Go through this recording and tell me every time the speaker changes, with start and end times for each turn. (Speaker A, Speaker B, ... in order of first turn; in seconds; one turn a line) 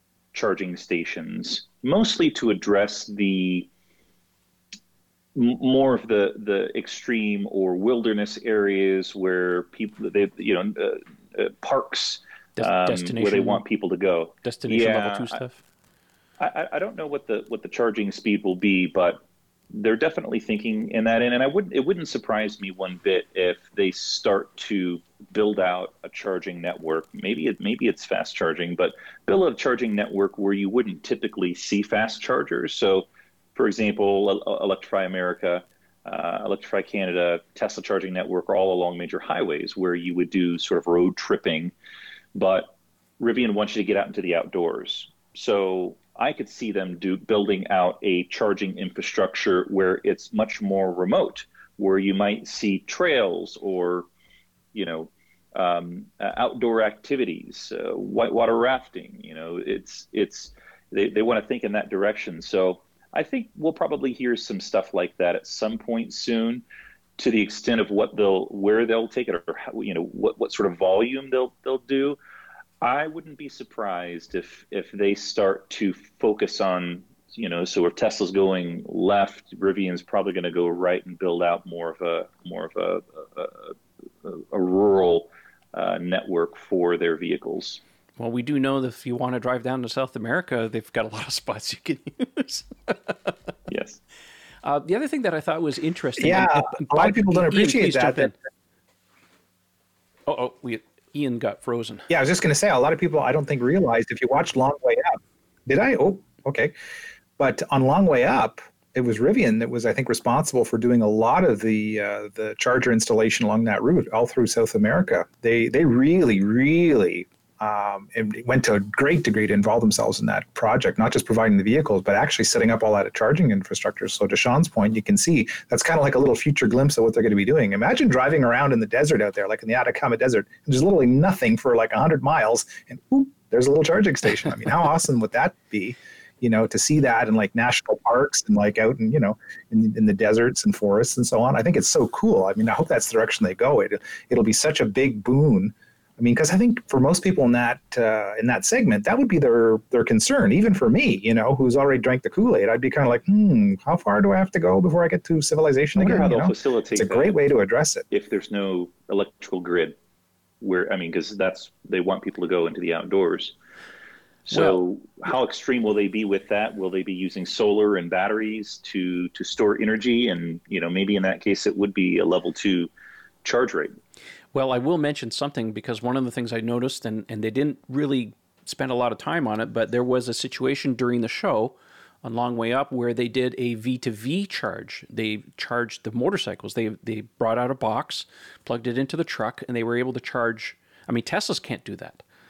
Speaker A: 0.3-3.7
Speaker A: 5.3-15.4
Speaker B: 12.6-13.6
Speaker B: 14.4-15.6
Speaker A: 16.4-41.7
Speaker A: 42.4-54.1
Speaker A: 54.7-66.6
Speaker A: 67.2-72.2
Speaker A: 72.8-87.8
Speaker B: 88.2-93.3
Speaker A: 93.7-94.0
Speaker B: 94.6-98.3
Speaker C: 96.2-98.3
Speaker B: 100.3-102.1
Speaker C: 102.1-106.7
Speaker C: 107.4-158.1
Speaker A: 156.0-157.4
Speaker A: 158.1-160.0
Speaker A: 160.6-163.6
Speaker A: 164.5-172.9
Speaker B: 164.5-164.8
Speaker A: 173.4-173.9
Speaker B: 174.5-192.2